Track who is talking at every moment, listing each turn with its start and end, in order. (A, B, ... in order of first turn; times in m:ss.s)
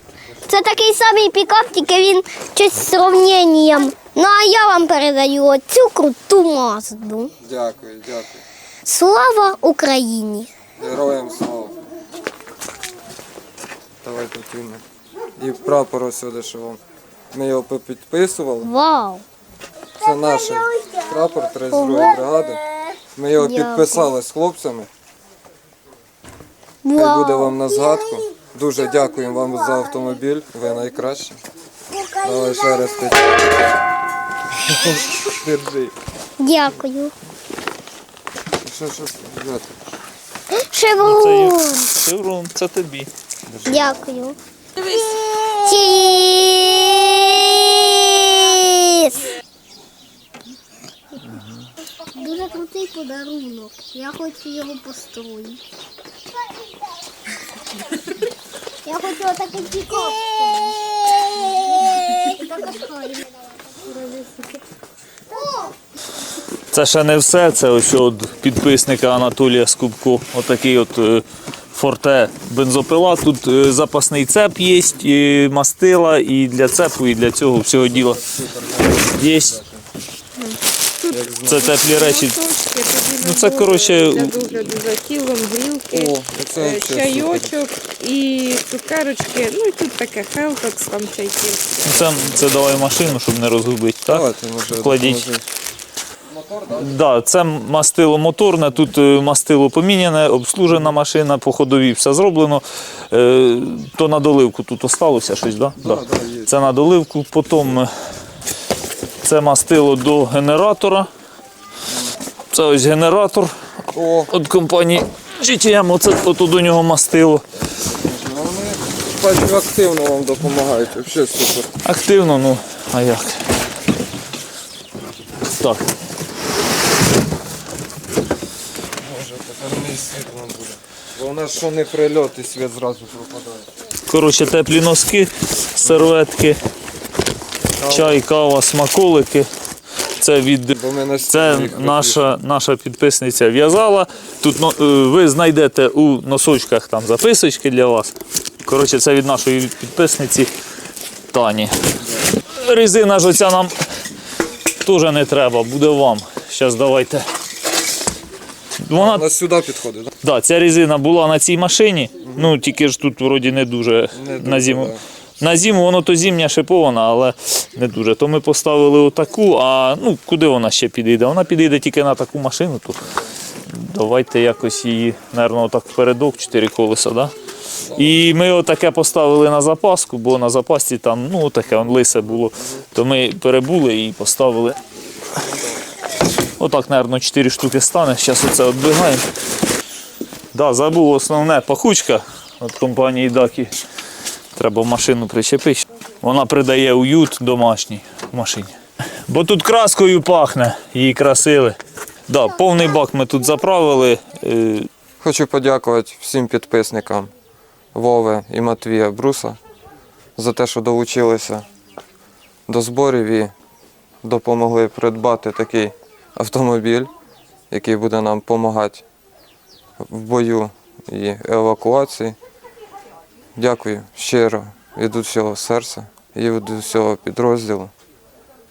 0:00.5-0:07.3 A
0:07.4-0:08.4 B
0:08.8-0:10.5 A
0:10.8-0:11.8 B
0:14.0-0:14.8 B
0:15.4-0:16.8 B
0:17.3-0:18.7 B
0:18.6-0:19.2 A
0:20.0-0:22.6 B
0:20.0-0:24.1 A
0:23.1-0:24.9 B
0:26.8-0:30.0 A
0:26.9-0:31.4 B
0:31.9-0:33.1 A
0:32.2-0:33.4 B
0:34.8-0:35.9 B
0:36.4-0:37.1 A
0:38.6-0:39.8 B
0:40.6-0:41.8 A
0:41.0-0:43.1 C
0:43.5-0:43.9 B
0:43.6-0:44.4 A
0:45.5-0:49.2 A
0:52.2-0:55.6 A
0:58.8-1:03.3 A
1:03.8-1:04.4 A
1:05.3-1:05.7 A
1:06.7-1:18.2 C
1:17.8-1:19.8 B
1:19.1-1:19.6 C
1:20.4-1:32.4 D
1:21.1-1:21.9 B
1:21.4-1:22.4 C
1:23.2-1:24.6 C
1:25.9-1:27.6 B
1:31.8-1:35.3 C
1:34.0-1:35.4 B
1:36.2-1:37.0 B
1:36.8-1:47.9 C
1:45.8-1:46.5 B
1:49.2-1:51.1 C
1:51.9-1:52.1 B
1:52.5-1:53.5 C
1:53.9-1:54.3 B
1:54.3-1:57.4 C
1:57.6-2:01.7 B
2:01.8-2:03.4 C
2:05.5-2:05.8 C
2:09.0-2:13.7 B
2:14.1-2:16.6 C
2:17.8-2:18.2 B
2:17.9-2:19.5 C
2:20.2-2:30.5 C
2:20.7-2:22.3 B
2:31.3-2:31.8 C
2:32.5-2:33.7 C
2:34.8-2:37.2 C
2:38.8-2:39.2 C
2:38.9-2:40.1 B
2:40.2-2:53.0 C
2:42.2-2:42.5 B
2:44.1-2:45.0 B
2:53.7-2:57.3 C
2:57.9-2:58.2 B
2:58.0-3:04.8 C
3:02.1-3:02.8 B
3:05.4-3:05.7 B
3:06.6-3:09.2 C
3:10.5-3:13.8 C
3:14.6-3:18.8 C
3:19.3-3:21.8 C
3:22.3-3:24.9 C
3:25.2-3:27.3 B
3:27.9-3:29.6 B
3:30.4-3:31.7 B
3:32.7-3:33.5 B
3:34.2-3:37.1 B
3:37.7-3:39.0 B
3:40.0-3:42.4 B
3:43.6-3:47.9 B